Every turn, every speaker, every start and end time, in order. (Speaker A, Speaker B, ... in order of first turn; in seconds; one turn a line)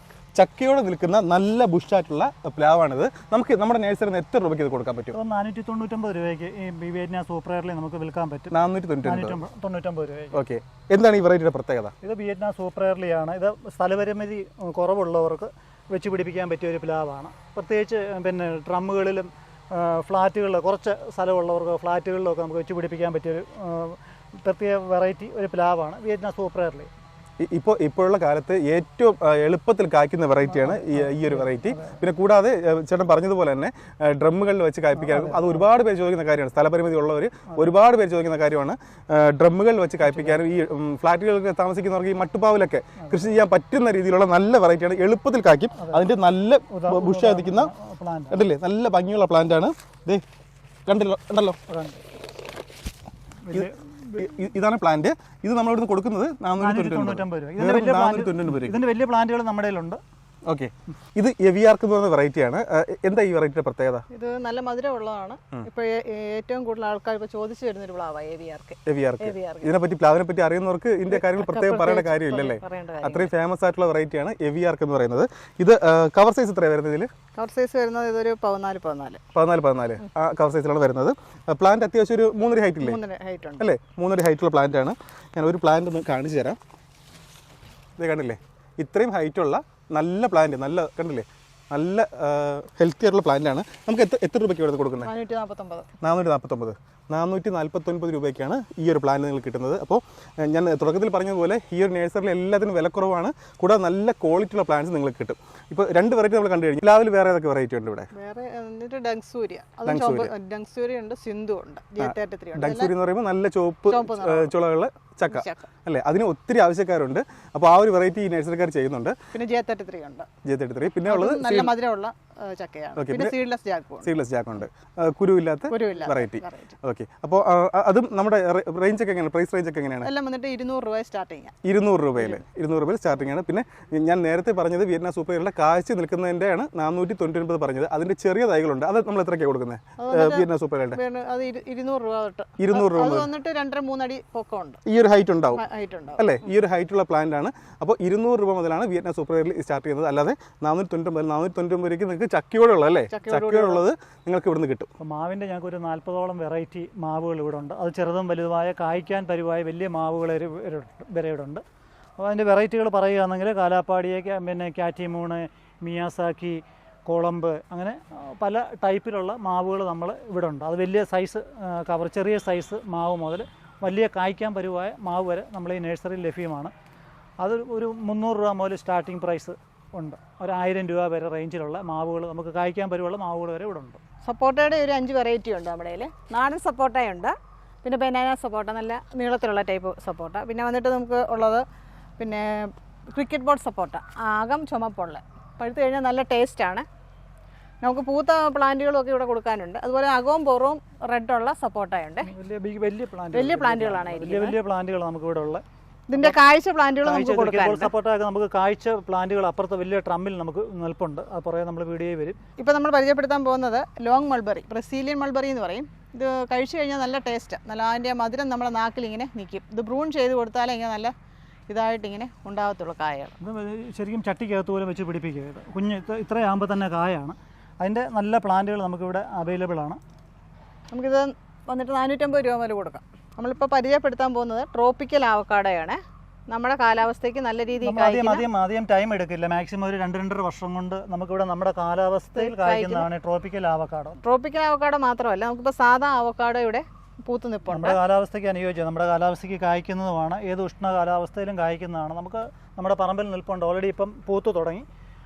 Speaker A: 0.3-5.2
Speaker B: 5.1-10.4
Speaker A: 8.5-9.4
Speaker A: 10.3-11.9
Speaker B: 12.0-26.9
Speaker A: 27.4-47.7
Speaker B: 30.5-32.0
Speaker B: 35.0-35.7
Speaker B: 40.0-40.4
Speaker B: 43.0-43.2
Speaker B: 45.7-46.0
Speaker B: 46.7-48.4
Speaker A: 48.3-50.2
Speaker A: 50.9-51.6
Speaker B: 51.7-52.0
Speaker B: 53.5-54.3
Speaker A: 53.5-58.8
Speaker B: 56.6-60.0
Speaker A: 60.5-64.0
Speaker C: 64.1-69.7
Speaker A: 68.9-77.1
Speaker C: 71.1-73.3
Speaker C: 77.4-79.2
Speaker A: 79.3-83.0
Speaker C: 82.8-83.7
Speaker A: 83.6-86.6
Speaker A: 88.0-95.1
Speaker C: 95.0-95.9
Speaker A: 96.0-108.1
Speaker C: 108.1-112.9
Speaker A: 109.9-110.3
Speaker A: 112.0-119.2
Speaker C: 113.9-114.5
Speaker C: 115.3-115.7
Speaker C: 119.3-120.3
Speaker A: 120.4-121.7
Speaker C: 121.1-124.1
Speaker A: 123.0-123.4
Speaker A: 124.0-130.1
Speaker C: 125.7-126.8
Speaker C: 130.0-131.6
Speaker A: 131.6-141.0
Speaker C: 132.2-132.4
Speaker C: 140.0-144.8
Speaker A: 142.6-143.3
Speaker A: 144.9-145.6
Speaker C: 145.5-146.3
Speaker A: 146.2-154.9
Speaker C: 153.1-153.8
Speaker B: 155.0-161.6
Speaker B: 162.2-176.7
Speaker B: 177.4-184.0
Speaker C: 184.2-191.7
Speaker C: 192.2-196.9
Speaker C: 197.8-202.3
Speaker B: 202.3-205.6
Speaker C: 203.3-204.6
Speaker C: 206.1-207.9
Speaker B: 207.0-212.4
Speaker C: 212.6-221.1
Speaker C: 221.7-223.3
Speaker B: 223.4-230.0
Speaker C: 230.9-238.5
Speaker B: 237.8-244.2
Speaker C: 242.4-243.1
Speaker C: 244.2-248.0
Speaker B: 247.7-254.9